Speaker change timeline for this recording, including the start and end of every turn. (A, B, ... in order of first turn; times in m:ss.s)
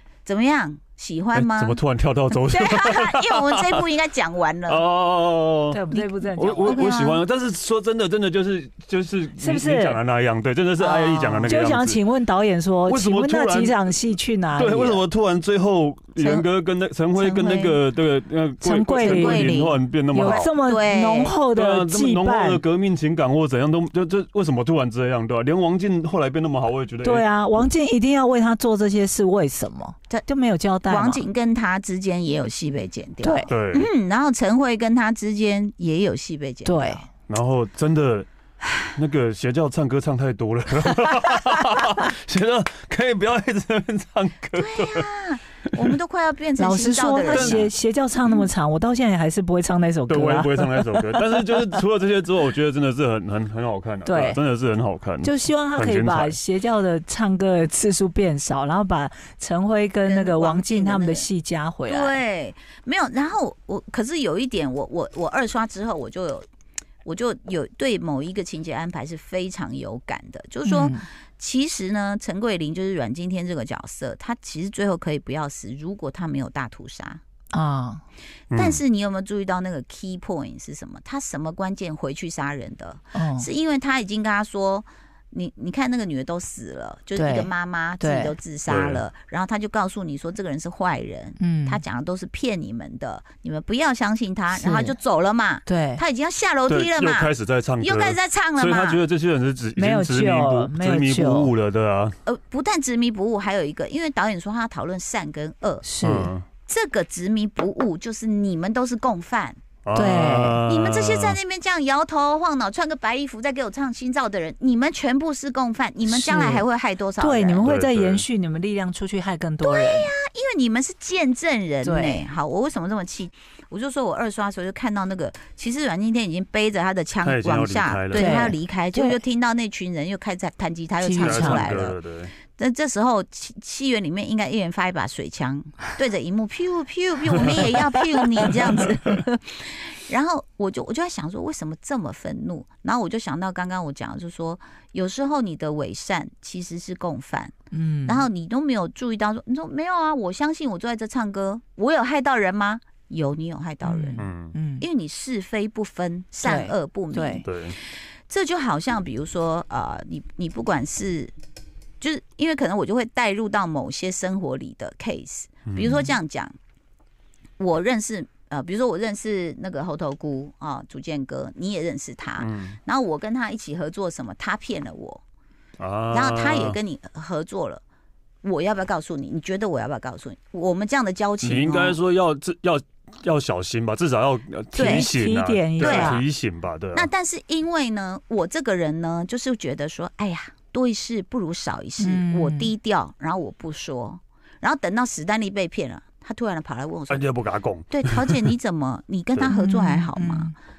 0:00.2-0:01.8 A
0:01.3-0:03.8 B
0:02.4-0:04.8 A
0:04.7-0:05.8 B
0:05.7-0:06.9 C
0:05.9-0:07.2 A
0:06.4-0:12.0 B
0:09.4-0:10.0 C
0:10.8-0:11.5 A
0:11.5-0:15.0 C
0:12.9-0:13.8 B
0:14.5-0:20.5 B
0:16.2-0:16.5 A
0:17.2-0:17.8 A
0:18.6-0:19.5 C
0:19.0-0:21.4 A
0:20.1-0:22.6 C
0:21.5-0:27.2 B
0:27.0-0:31.2 C
0:30.9-0:37.0 A
0:33.2-0:33.5 C
0:33.5-0:33.9 B
0:36.6-0:37.1 C
0:37.3-0:38.3 B
0:38.9-0:45.1 B
0:44.5-0:47.7 A
0:46.6-0:51.2 C
0:47.2-0:47.7 B
0:50.1-0:56.4 B
0:54.0-0:54.4 C
0:55.2-1:02.2 C
1:00.0-1:01.3 A
1:01.9-1:06.4 A
1:07.0-1:17.2 A
1:10.6-1:11.0 C
1:17.5-1:18.0 C
1:18.5-1:18.8 B
1:18.5-1:37.3 A
1:23.1-1:23.5 C
1:27.1-1:28.3 C
1:28.7-1:29.0 B
1:31.4-1:31.8 C
1:34.5-1:34.9 C
1:35.6-1:36.0 C
1:36.7-1:42.2 B
1:37.8-1:39.0 A
1:39.8-1:41.5 C
1:42.2-1:45.9 A
1:45.8-1:46.3 C
1:46.0-1:46.4 B
1:46.7-1:57.6 A
1:49.8-1:51.4 B
1:49.9-1:50.6 C
1:56.0-1:56.6 C
1:57.2-2:00.1 C
1:57.6-1:58.2 B
1:59.6-2:12.0 A
2:01.8-2:02.2 C
2:07.2-2:08.6 B
2:08.2-2:09.2 C
2:11.0-2:11.6 C
2:11.2-2:12.3 B
2:12.5-2:27.5 A
2:27.7-2:28.3 C
2:28.0-2:34.2 A
2:33.8-2:34.8 C
2:34.2-2:34.6 B
2:34.8-2:41.3 A
2:36.4-2:37.5 C
2:37.4-2:37.8 B
2:42.0-2:46.5 A
2:45.7-2:46.0 B
2:47.6-2:55.2 A
2:52.4-2:52.8 B
2:55.8-2:56.8 B
2:56.1-2:57.8 A
2:58.4-3:02.0 A
3:01.4-3:07.1 B
3:04.7-3:06.2 C
3:04.8-3:05.1 A
3:05.8-3:06.2 A
3:06.9-3:17.3 A
3:12.0-3:12.7 C
3:17.1-3:18.5 B
3:17.9-3:20.5 A
3:19.5-3:20.5 C